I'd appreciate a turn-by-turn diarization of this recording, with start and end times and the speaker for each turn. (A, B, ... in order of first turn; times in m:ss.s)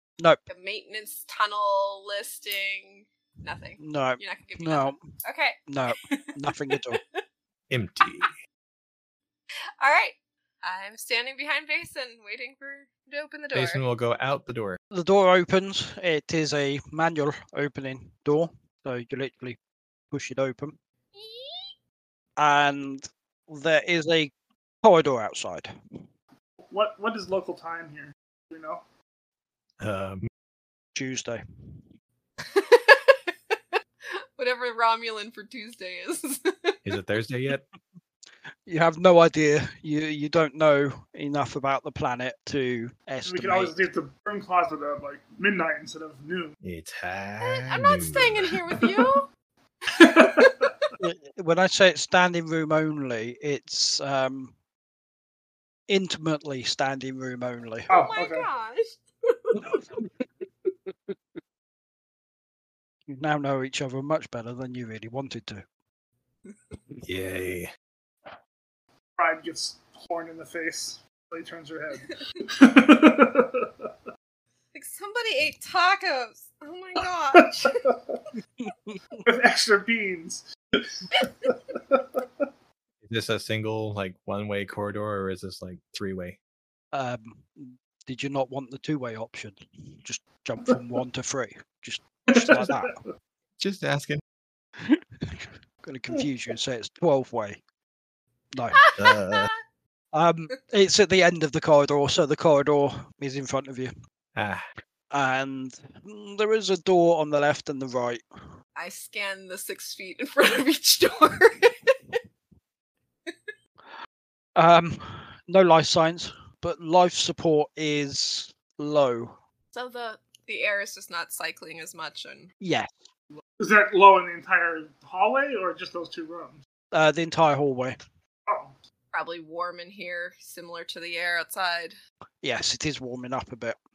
0:00.5-0:07.2 A
0:03.8-0:05.0 B
0:05.7-0:07.0 B
0:07.7-0:08.3 C
0:08.0-0:08.3 A
0:09.8-0:13.8 A
0:13.5-0:14.8 C
0:14.9-0:19.6 B
0:20.1-0:20.8 B
0:21.1-0:21.7 A
0:22.4-0:25.7 B
0:26.6-0:28.8 D
0:29.8-0:30.3 C
0:30.9-0:31.9 B
0:32.4-0:36.8 A
0:36.8-0:37.6 C
0:38.6-0:43.8 B
0:43.2-0:46.6 D
0:46.6-0:48.5 C
0:47.4-0:49.2 A
0:49.9-0:50.7 D
0:50.0-0:50.7 A
0:51.0-0:54.5 B
0:55.9-0:57.9 B
0:57.9-0:58.5 D
0:57.9-0:59.6 A
0:59.6-1:00.3 B
1:00.9-1:01.1 B
1:03.1-1:05.6 B
1:07.0-1:07.7 C
1:09.2-1:13.9 D
1:14.7-1:17.8 A
1:17.4-1:18.2 D
1:18.6-1:19.2 B
1:19.2-1:22.4 D
1:23.0-1:26.4 C
1:26.9-1:33.0 B
1:32.3-1:33.0 D
1:33.6-1:34.2 C
1:34.8-1:37.6 B
1:38.5-1:38.8 B
1:38.7-1:39.5 A
1:39.0-1:39.5 C
1:40.1-1:43.9 B
1:44.3-1:44.6 C
1:45.1-1:48.2 B
1:48.8-1:52.2 A
1:53.3-1:53.5 A
1:54.6-1:59.4 B
1:59.7-2:02.5 A
2:02.6-2:02.9 B
2:03.6-2:06.6 D
2:06.9-2:08.0 B
2:08.5-2:08.8 D
2:09.1-2:12.0 A
2:12.4-2:13.8 B